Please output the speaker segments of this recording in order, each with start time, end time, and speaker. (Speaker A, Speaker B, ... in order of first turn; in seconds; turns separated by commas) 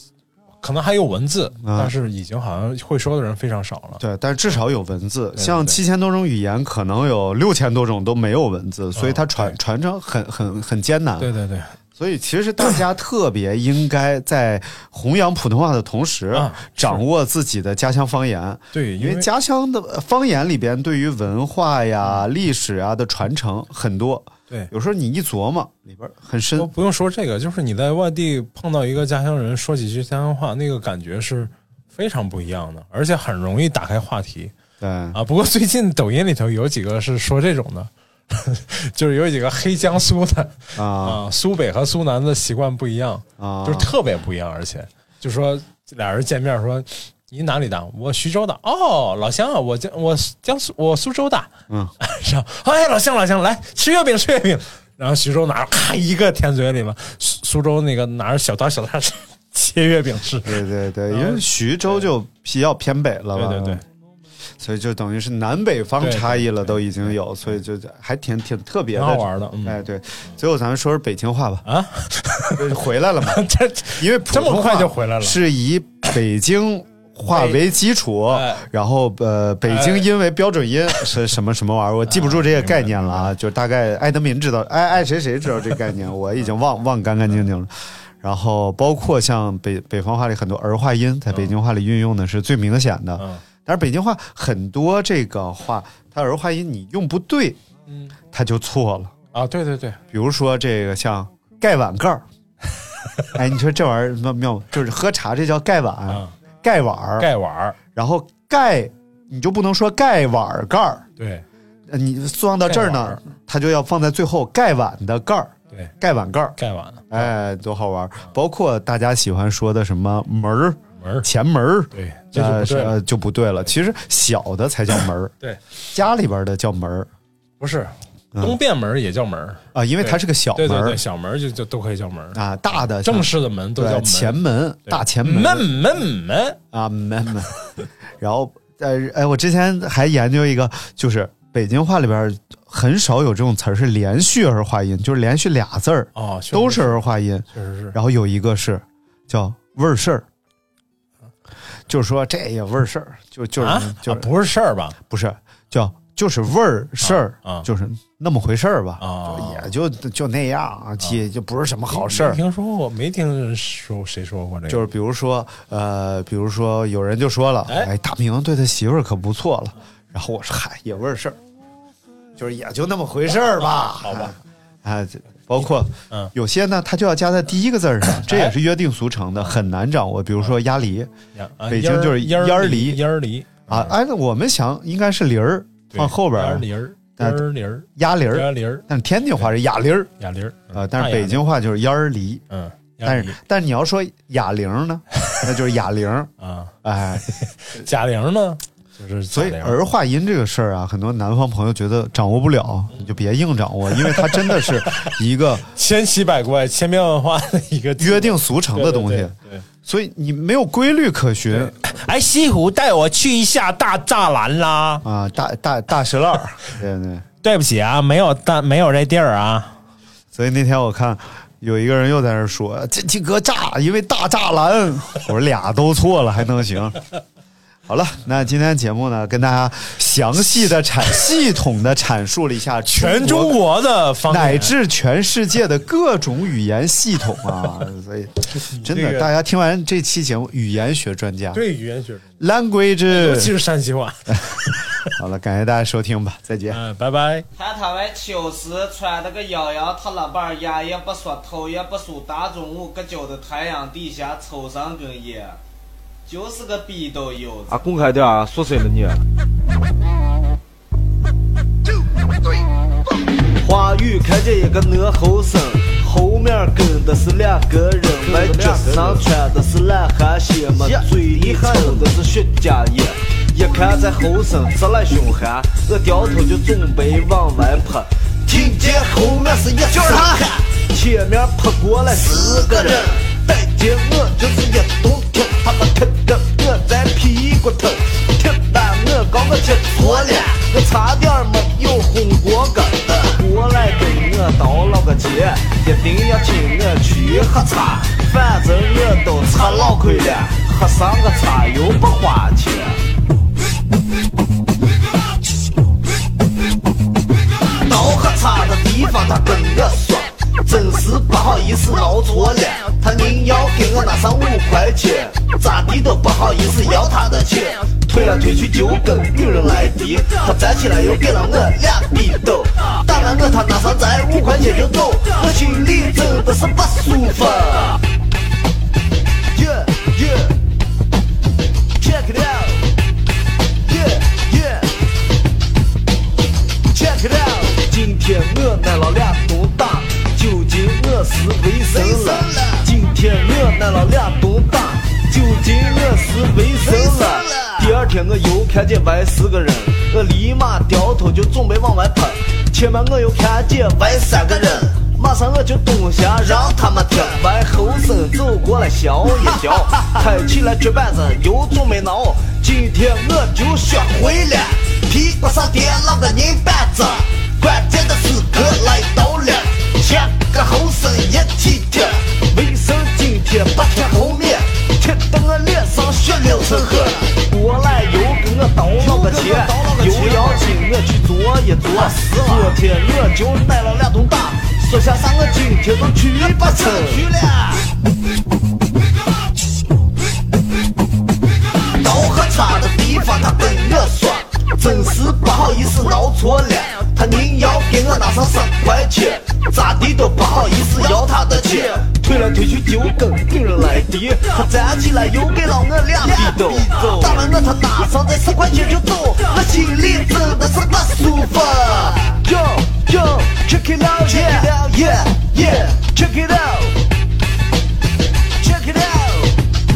Speaker A: 0.6-4.0, Speaker B: 1.6-1.9, Speaker B: 4.0-11.3, Speaker A: 5.4-5.8, Speaker A: 8.9-9.6, Speaker A: 11.2-11.7, Speaker B: 11.9-26.7, Speaker A: 16.3-17.0, Speaker A: 18.7-19.3, Speaker A: 26.6-34.5, Speaker B: 34.8-35.2, Speaker A: 35.1-62.0, Speaker B: 40.8-41.2, Speaker B: 43.4-43.9, Speaker B: 60.4-63.8, Speaker A: 63.4-63.8, Speaker B: 64.6-71.7, Speaker A: 66.0-67.1, Speaker A: 68.9-69.8, Speaker A: 71.7-72.7, Speaker B: 72.5-73.4, Speaker A: 73.2-75.4, Speaker B: 74.0-97.6, Speaker A: 77.3-77.6, Speaker A: 78.3-78.6, Speaker A: 79.7-80.1, Speaker A: 82.0-83.3, Speaker A: 93.2-93.4, Speaker A: 97.9-98.1, Speaker B: 98.3-99.1, Speaker A: 99.3-100.0, Speaker B: 100.1-102.2, Speaker B: 103.3-107.3, Speaker A: 106.1-106.3, Speaker A: 107.2-107.8, Speaker B: 107.9-111.0, Speaker A: 111.2-111.4, Speaker B: 111.9-116.6, Speaker A: 112.7-113.2, Speaker A: 116.6-117.3, Speaker B: 117.1-125.3, Speaker A: 121.0-121.3, Speaker A: 121.9-123.0, Speaker B: 125.9-127.1, Speaker A: 127.6-136.6, Speaker B: 129.7-131.0, Speaker B: 132.3-135.7, Speaker B: 136.7-137.5, Speaker B: 138.2-150.2, Speaker A: 146.1-147.9, Speaker B: 151.9-154.3, Speaker A: 153.6-155.0, Speaker B: 155.1-162.4, Speaker A: 157.0-157.7, Speaker A: 159.0-159.7, Speaker A: 161.9-164.9, Speaker B: 164.7-171.4, Speaker B: 172.3-181.1, Speaker A: 174.0-174.3, Speaker A: 175.6-176.3, Speaker A: 178.2-178.6, Speaker A: 181.3-183.9, Speaker B: 181.7-183.0, Speaker B: 183.7-186.7, Speaker A: 185.9-188.8, Speaker B: 187.2-190.1, Speaker A: 190.2-191.4, Speaker B: 190.7-192.4, Speaker A: 192.5-193.3, Speaker B: 193.0-196.3, Speaker A: 196.4-199.8, Speaker B: 196.8-197.8, Speaker B: 199.3-205.7, Speaker A: 203.9-205.1, Speaker A: 205.7-209.6, Speaker B: 208.0-211.8, Speaker A: 211.5-215.0, Speaker B: 215.0-217.2, Speaker A: 217.4-219.8, Speaker B: 220.3-227.0, Speaker B: 227.9-233.6, Speaker A: 232.9-234.7, Speaker B: 234.3-241.6, Speaker A: 238.5-239.3, Speaker A: 241.5-242.2, Speaker B: 242.4-243.5, Speaker A: 243.1-245.1, Speaker B: 244.3-246.8, Speaker A: 246.7-247.5, Speaker C: 247.6-255.6, Speaker C: 256.3-257.9, Speaker D: 257.7-259.2, Speaker D: 263.6-303.0, Speaker C: 268.2-269.2, Speaker C: 270.7-272.1, Speaker C: 278.5-279.0, Speaker C: 279.8-280.6, Speaker C: 282.3-283.1, Speaker C: 289.9-290.6, Speaker D: 307.8-328.0, Speaker D: 329.5-330.6, Speaker D: 332.0-332.8, Speaker D: 333.8-334.9, Speaker D: 336.9-366.2, Speaker C: 341.9-342.8, Speaker C: 346.8-348.1, Speaker C: 354.4-354.8, Speaker C: 356.6-357.3, Speaker C: 359.4-360.1, Speaker C: 365.5-367.2, Speaker D: 367.6-387.8, Speaker C: 368.1-369.3, Speaker C: 370.1-371.8, Speaker C: 373.9-374.5, Speaker C: 376.2-377.4, Speaker C: 379.0-380.7, Speaker C: 381.9-382.8, Speaker C: 386.4-387.6, Speaker D: 392.0-417.0, Speaker C: 401.2-402.0, Speaker C: 406.2-407.8, Speaker C: 411.7-412.2, Speaker C: 414.3-414.9, Speaker C: 415.4-415.8, Speaker D: 418.6-419.6